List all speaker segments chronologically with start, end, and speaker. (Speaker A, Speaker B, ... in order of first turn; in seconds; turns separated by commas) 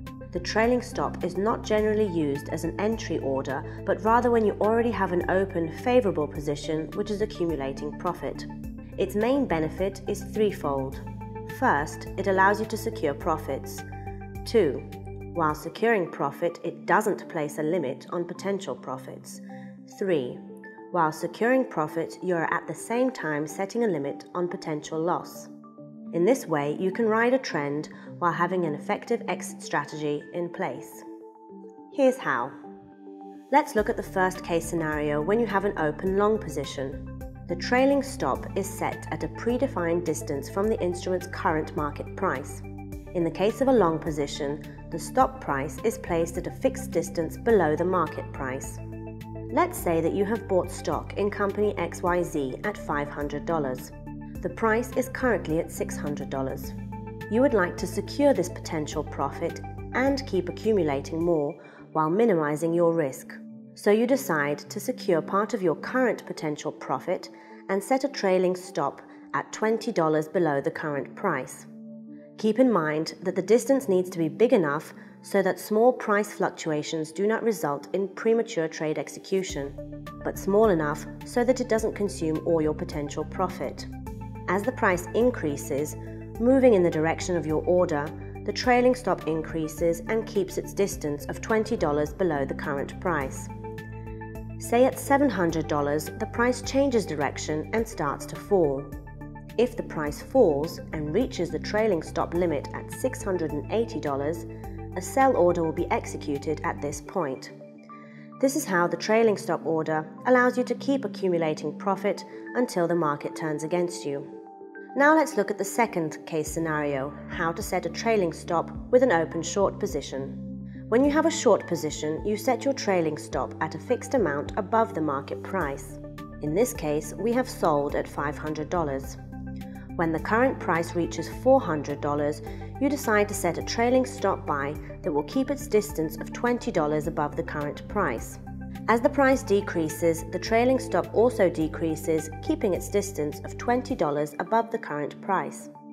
Speaker A: 0.3-13.8, Speaker A: 14.4-25.5, Speaker A: 26.1-31.0, Speaker A: 31.9-32.5, Speaker A: 33.5-42.6, Speaker A: 43.1-48.8, Speaker A: 49.5-56.8, Speaker A: 57.3-71.7, Speaker A: 72.4-83.9, Speaker A: 84.5-93.5, Speaker A: 94.6-98.9, Speaker A: 99.6-107.5, Speaker A: 108.4-114.3, Speaker A: 114.9-129.2, Speaker A: 129.9-145.7